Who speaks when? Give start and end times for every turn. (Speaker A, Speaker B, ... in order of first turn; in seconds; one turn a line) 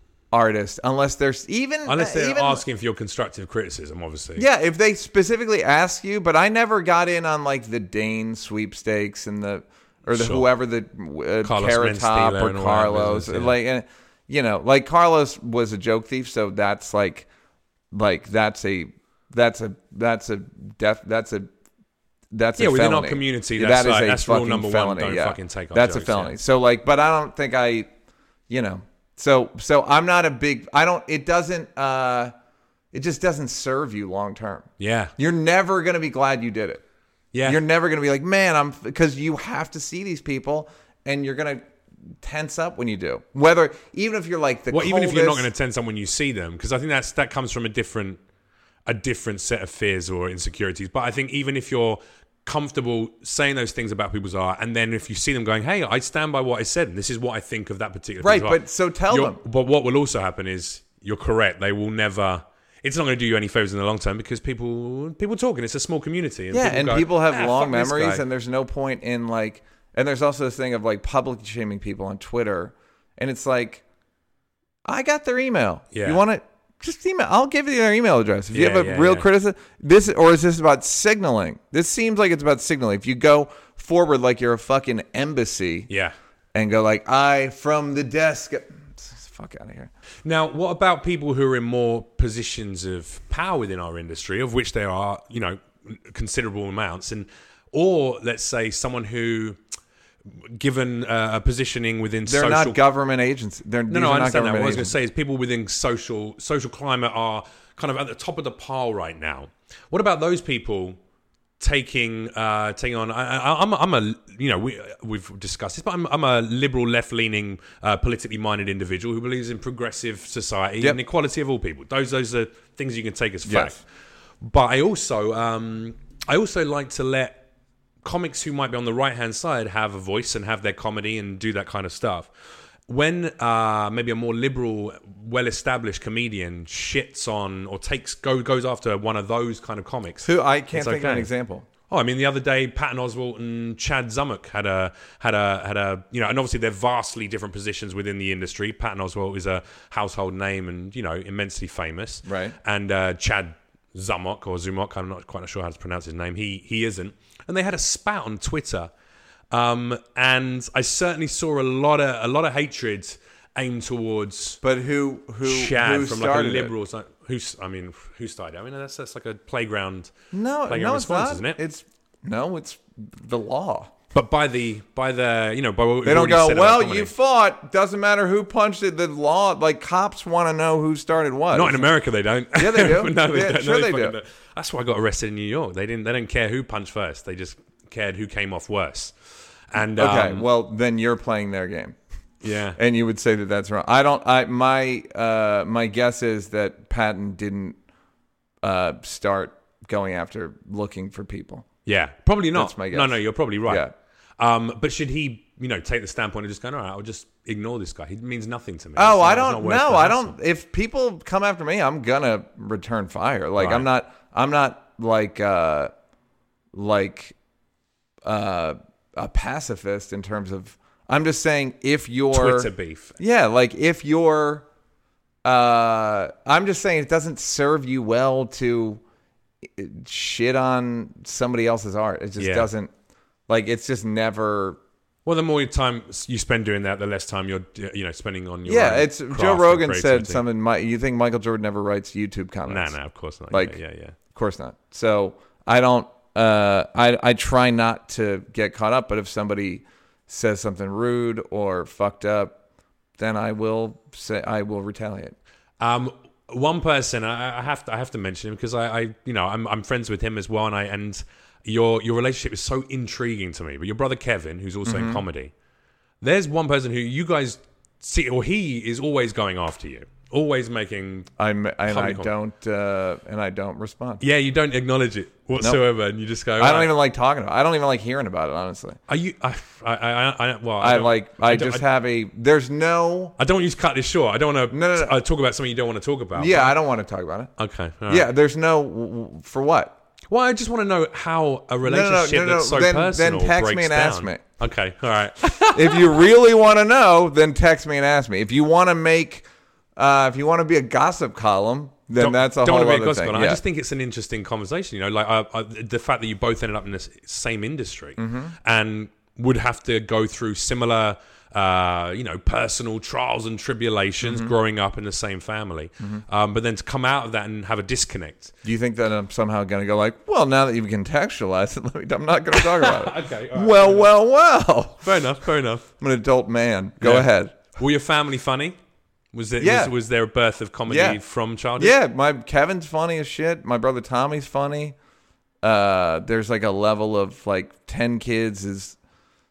Speaker A: 0.3-2.6
Speaker B: 1.9-4.5
Speaker A: 4.4-17.3
Speaker B: 10.1-10.5
Speaker B: 11.4-13.6
Speaker A: 17.9-21.5
Speaker A: 22.3-27.9
Speaker B: 22.6-26.4
Speaker A: 28.5-32.3
Speaker A: 32.9-36.8
Speaker B: 34.8-35.1
Speaker B: 37.3-37.6
Speaker A: 37.4-41.6
Speaker A: 42.2-45.5
Speaker B: 44.7-48.2
Speaker B: 48.9-68.2
Speaker A: 58.2-59.4
Speaker A: 66.5-73.8
Speaker A: 74.8-85.9
Speaker B: 75.9-76.2
Speaker B: 78.5-79.3
Speaker B: 85.9-86.1
Speaker A: 86.5-89.9
Speaker B: 90.2-99.6
Speaker B: 100.4-102.8
Speaker A: 102.2-104.9
Speaker B: 103.9-111.0
Speaker B: 111.6-123.8
Speaker A: 123.5-123.8
Speaker B: 124.4-127.4
Speaker B: 128.0-132.3
Speaker B: 132.9-141.3
Speaker A: 140.2-141.7
Speaker B: 141.9-158.9
Speaker A: 152.2-152.6
Speaker B: 159.5-164.6
Speaker A: 164.6-166.7
Speaker B: 165.4-170.1
Speaker A: 170.3-173.9
Speaker B: 170.7-171.6
Speaker B: 174.1-177.1
Speaker A: 176.0-181.8
Speaker B: 181.5-189.1
Speaker A: 182.5-184.1
Speaker B: 189.7-190.4
Speaker A: 189.9-192.0
Speaker B: 192.4-192.8
Speaker A: 192.8-197.8
Speaker A: 198.6-201.7
Speaker B: 201.8-210.3
Speaker A: 202.5-203.9
Speaker A: 208.9-215.9
Speaker B: 213.6-213.9
Speaker A: 216.7-217.3
Speaker A: 218.2-224.7
Speaker B: 222.3-223.2
Speaker A: 225.4-229.0
Speaker A: 229.6-232.9
Speaker B: 232.4-232.7
Speaker A: 233.5-234.8
Speaker B: 235.2-240.4
Speaker A: 238.7-242.9
Speaker B: 242.7-244.2
Speaker A: 243.5-243.8
Speaker A: 244.3-252.6
Speaker A: 253.2-255.3
Speaker B: 255.8-265.5
Speaker A: 264.8-265.2
Speaker B: 266.2-271.3
Speaker A: 271.4-274.2
Speaker B: 271.9-272.3
Speaker B: 274.2-276.9
Speaker A: 276.6-279.0
Speaker B: 279.1-281.8
Speaker A: 280.8-283.4
Speaker B: 283.4-286.7
Speaker A: 284.7-285.1
Speaker A: 286.3-287.5
Speaker B: 287.6-288.3
Speaker A: 288.1-289.9
Speaker B: 290.3-296.2
Speaker A: 291.8-294.4
Speaker A: 295.5-303.6
Speaker B: 302.2-318.5
Speaker A: 308.2-308.5
Speaker A: 314.2-314.5
Speaker A: 318.6-325.1
Speaker B: 322.5-324.1
Speaker B: 325.0-325.9
Speaker A: 326.0-327.5
Speaker B: 327.0-328.8
Speaker B: 329.3-331.9
Speaker A: 329.6-329.9
Speaker A: 330.9-331.2
Speaker A: 331.8-334.9
Speaker A: 335.6-339.0